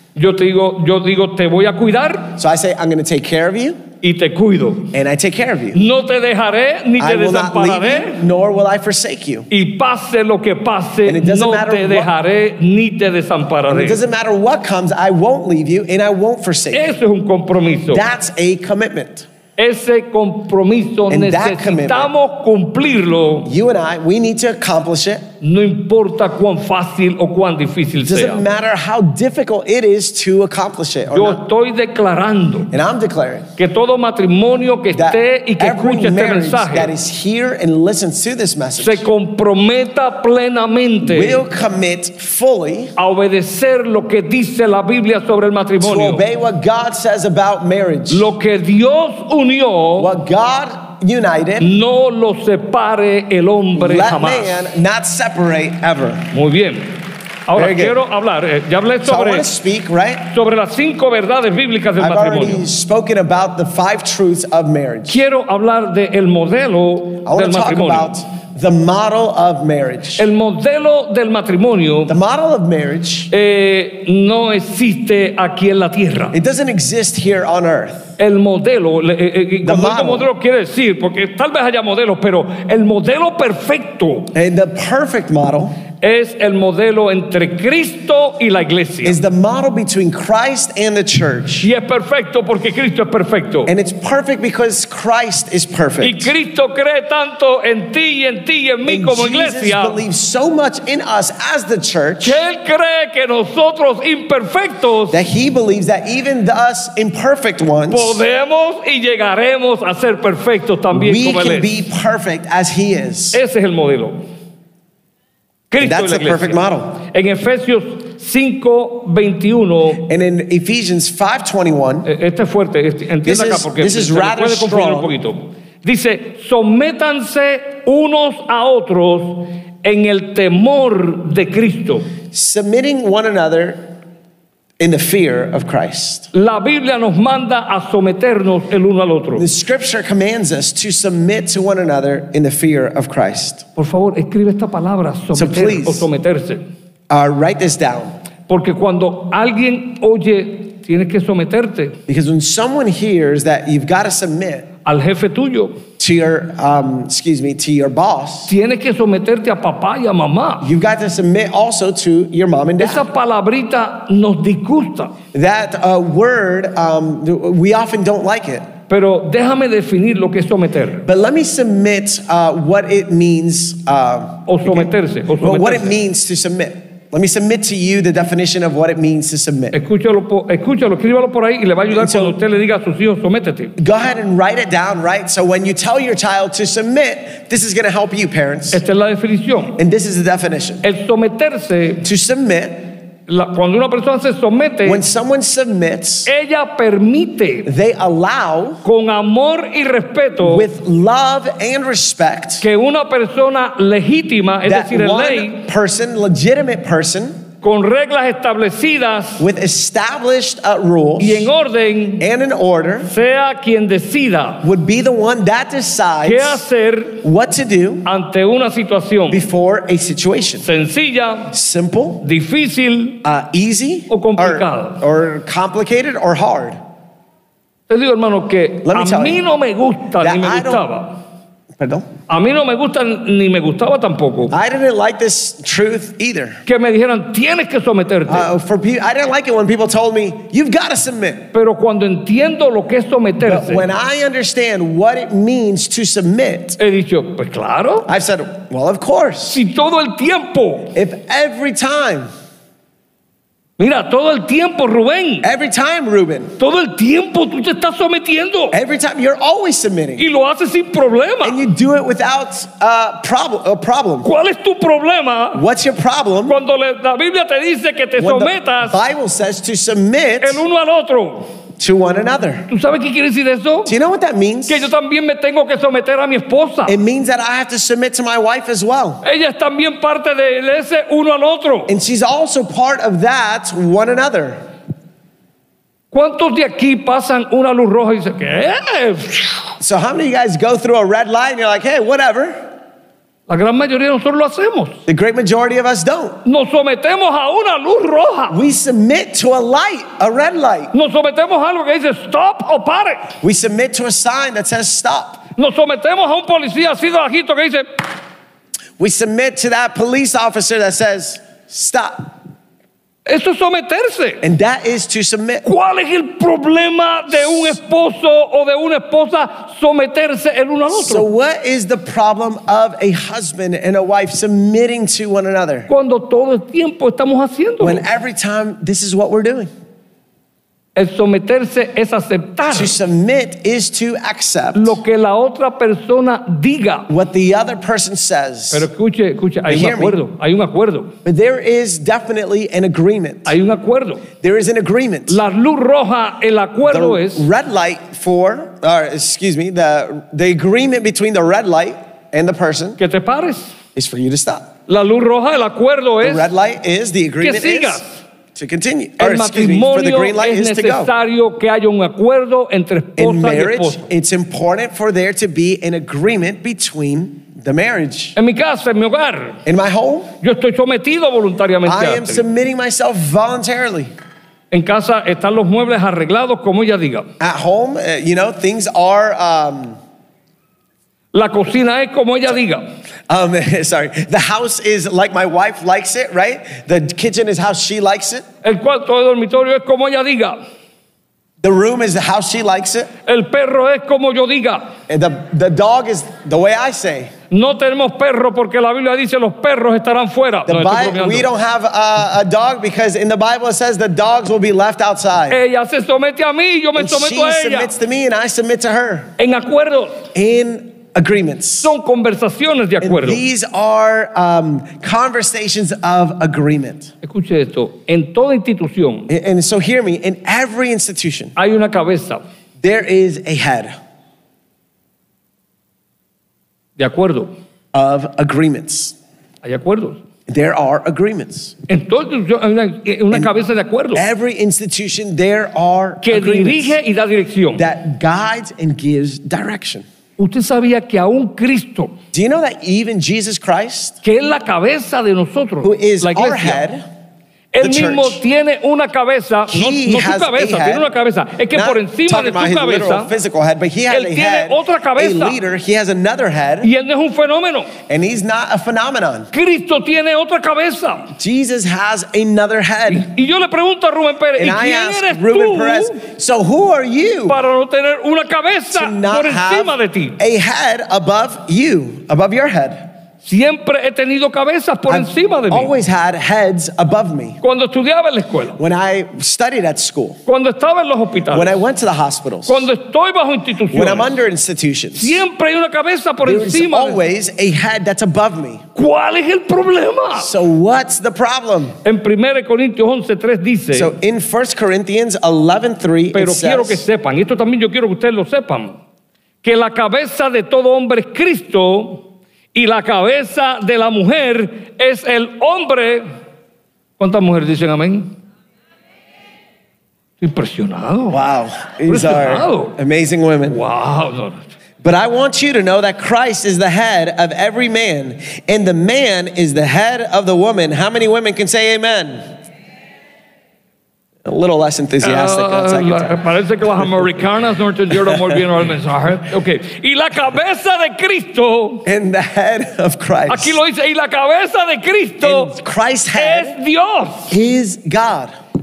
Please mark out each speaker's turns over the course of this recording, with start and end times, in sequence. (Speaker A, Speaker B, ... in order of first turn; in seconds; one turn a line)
Speaker A: 0.2-2.4
Speaker B: 2.4-3.8
Speaker A: 4.0-4.9
Speaker B: 4.9-5.8
Speaker A: 5.7-8.2
Speaker B: 7.0-9.5
Speaker A: 9.5-14.0
Speaker B: 11.1-12.1
Speaker B: 13.7-16.9
Speaker A: 16.7-18.1
Speaker B: 17.9-19.3
Speaker A: 19.6-23.5
Speaker B: 21.1-22.1
Speaker B: 23.5-25.2
Speaker A: 25.4-28.4
Speaker B: 28.0-31.4
Speaker A: 31.1-32.7
Speaker B: 32.7-33.5
Speaker A: 33.6-36.9
Speaker B: 34.9-39.0
Speaker A: 38.8-41.4
Speaker B: 41.0-42.9
Speaker A: 43.0-46.2
Speaker B: 45.8-48.3
Speaker A: 48.1-50.1
Speaker B: 50.0-51.7
Speaker A: 51.6-54.7
Speaker B: 53.8-56.3
Speaker A: 56.3-59.5
Speaker B: 57.5-58.0
Speaker B: 59.0-60.2
Speaker A: 60.3-62.6
Speaker B: 62.0-65.2
Speaker A: 65.1-68.2
Speaker B: 67.2-70.3
Speaker A: 70.2-72.2
Speaker B: 72.1-73.3
Speaker A: 73.3-76.4
Speaker B: 76.3-78.1
Speaker A: 78.2-84.3
Speaker B: 79.6-80.3
Speaker B: 84.3-85.8
Speaker A: 86.0-89.2
Speaker B: 89.0-91.7
Speaker A: 91.6-93.7
Speaker B: 93.7-96.3
Speaker A: 96.0-100.0
Speaker B: 98.9-102.4
Speaker A: 102.2-105.2
Speaker B: 105.1-108.2
Speaker A: 107.9-111.8
Speaker B: 110.9-113.4
Speaker A: 113.3-114.2
Speaker A: 115.7-120.0
Speaker B: 115.8-117.0
Speaker B: 120.0-122.1
Speaker A: 122.0-132.1
Speaker B: 123.2-125.2
Speaker B: 132.3-133.9
Speaker B: 134.8-136.3
Speaker A: 136.3-139.5
Speaker B: 139.4-143.7
Speaker A: 143.8-146.7
Speaker B: 145.3-146.1
Speaker B: 147.1-148.1
Speaker A: 148.5-152.0
Speaker B: 152.1-154.7
Speaker A: 154.8-155.8
Speaker B: 156.0-158.5
Speaker A: 158.5-160.7
Speaker B: 160.6-163.1
Speaker A: 162.8-165.2
Speaker B: 165.3-168.7
Speaker A: 168.9-171.1
Speaker B: 171.1-179.8
Speaker A: 174.5-176.0
Speaker A: 179.7-183.8
Speaker B: 181.9-182.4
Speaker B: 183.8-188.8
Speaker A: 188.7-189.8
Speaker B: 189.8-190.8
Speaker A: 190.8-192.1
Speaker B: 192.0-192.9
Speaker A: 193.3-195.0
Speaker B: 194.8-196.3
Speaker A: 196.3-197.7
Speaker B: 197.7-198.8
Speaker A: 198.8-200.7
Speaker B: 200.4-202.7
Speaker A: 202.6-205.7
Speaker B: 204.7-207.4
Speaker A: 207.6-209.5
Speaker B: 209.4-211.5
Speaker A: 211.2-212.3
Speaker B: 212.2-213.1
Speaker A: 213.0-214.7
Speaker B: 214.6-216.6
Speaker A: 216.2-217.2
Speaker B: 217.2-218.1
Speaker A: 218.1-219.4
Speaker B: 219.3-220.7
Speaker A: 220.6-221.6
Speaker B: 221.5-222.2
Speaker A: 222.2-223.2
Speaker B: 223.2-226.8
Speaker A: 224.1-225.0
Speaker A: 227.9-231.2
Speaker B: 228.8-229.4
Speaker B: 230.2-230.9
Speaker B: 231.8-232.1
Speaker A: 232.3-234.5
Speaker B: 234.5-236.6
Speaker A: 236.7-238.5
Speaker B: 238.3-241.5
Speaker A: 241.5-243.9
Speaker B: 243.4-246.8
Speaker A: 246.8-248.1
Speaker B: 248.1-249.6
Speaker A: 249.5-250.9
Speaker B: 250.9-252.3
Speaker A: 253.8-255.5
Speaker B: 255.4-256.5
Speaker A: 256.6-258.8
Speaker B: 258.7-260.2
Speaker A: 260.2-261.6
Speaker B: 261.4-264.3
Speaker A: 264.2-265.6
Speaker B: 265.5-266.6
Speaker A: 266.5-269.0
Speaker B: 268.2-270.6
Speaker A: 270.4-271.5
Speaker B: 271.8-272.7
Speaker A: 272.7-273.9
Speaker B: 273.9-274.9
Speaker A: 274.7-276.9
Speaker B: 276.9-279.2
Speaker A: 279.2-281.9
Speaker B: 281.9-284.6
Speaker A: 286.1-289.8
Speaker B: 289.8-292.7
Speaker A: 293.5-295.0
Speaker B: 295.1-296.4
Speaker A: 296.4-298.6
Speaker B: 298.5-300.9
Speaker A: 300.9-303.4
Speaker B: 303.4-305.4
Speaker A: 305.6-307.9
Speaker B: 309.0-312.4
Speaker A: 313.3-314.4
Speaker B: 314.4-315.6
Speaker A: 315.6-321.3
Speaker B: 320.9-325.9
Speaker A: 325.9-328.1
Speaker B: 327.8-329.7
Speaker A: 331.0-332.9
Speaker B: 332.7-335.0
Speaker A: 334.8-337.1
Speaker B: 337.1-338.9
Speaker A: 338.7-341.1
Speaker B: 339.7-340.2
Speaker B: 341.2-343.5
Speaker A: 343.5-344.3
Speaker B: 344.4-345.4
Speaker A: 345.3-347.5
Speaker B: 346.9-353.0
Speaker A: 353.0-353.8
Speaker B: 353.9-354.7
Speaker A: 354.9-356.5
Speaker B: 356.2-358.0
Speaker A: 357.4-358.2
Speaker B: 358.6-361.1
Speaker A: 359.2-364.1
Speaker B: 363.2-368.4
Speaker A: 368.4-369.6
Speaker B: 369.7-370.3
Speaker A: 370.4-372.4
Speaker B: 371.9-374.1
Speaker A: 374.7-377.3
Speaker B: 377.4-380.0
Speaker A: 381.3-382.9
Speaker B: 383.3-388.4
Speaker A: 388.6-390.6
Speaker B: 391.6-393.1
Speaker A: 393.3-394.9
Speaker B: 395.1-397.3
Speaker A: 397.5-401.5
Speaker B: 400.7-405.6
Speaker A: 405.5-407.9
Speaker B: 407.0-409.3
Speaker A: 409.4-410.3
Speaker B: 410.4-411.9
Speaker A: 411.8-413.4
Speaker B: 413.0-417.1
Speaker A: 417.2-419.3
Speaker B: 419.3-421.6
Speaker A: 421.6-422.4
Speaker B: 422.8-423.9
Speaker A: 427.0-427.5
Speaker B: 427.9-429.2
Speaker A: 429.6-430.2
Speaker B: 430.5-431.8
Speaker A: 431.9-434.2
Speaker B: 434.1-437.0
Speaker A: 436.2-437.8
Speaker B: 437.8-440.1
Speaker A: 440.4-442.1
Speaker B: 442.3-444.2
Speaker A: 444.2-446.8
Speaker B: 445.8-447.0
Speaker A: 447.7-453.3
Speaker B: 447.8-448.4
Speaker B: 449.7-451.1
Speaker B: 451.7-456.9
Speaker A: 454.1-455.6
Speaker A: 456.8-457.9
Speaker B: 458.1-459.5
Speaker A: 459.5-461.3
Speaker B: 461.4-463.3
Speaker A: 463.1-466.2
Speaker B: 464.6-467.6
Speaker A: 467.5-470.4
Speaker B: 468.9-473.1
Speaker A: 473.4-475.9
Speaker B: 475.1-477.6
Speaker A: 477.6-478.8
Speaker B: 478.8-480.4
Speaker A: 480.5-481.8
Speaker B: 481.5-482.9
Speaker A: 482.7-484.4
Speaker B: 483.9-485.4
Speaker A: 485.2-487.2
Speaker B: 486.4-488.8
Speaker A: 488.9-490.5
Speaker B: 490.4-492.0
Speaker A: 492.0-494.1
Speaker B: 493.9-497.1
Speaker A: 496.3-499.0
Speaker A: 499.6-506.2
Speaker A: 507.2-508.3
Speaker A: 510.4-511.4
Speaker B: 511.3-513.8
Speaker A: 512.1-513.0
Speaker A: 513.7-514.7
Speaker B: 515.0-522.4
Speaker B: 524.4-526.4
Speaker A: 525.2-532.1
Speaker B: 528.1-528.6
Speaker B: 532.1-533.8
Speaker A: 533.5-535.7
Speaker B: 535.4-536.8
Speaker A: 536.4-537.5
Speaker B: 537.5-538.5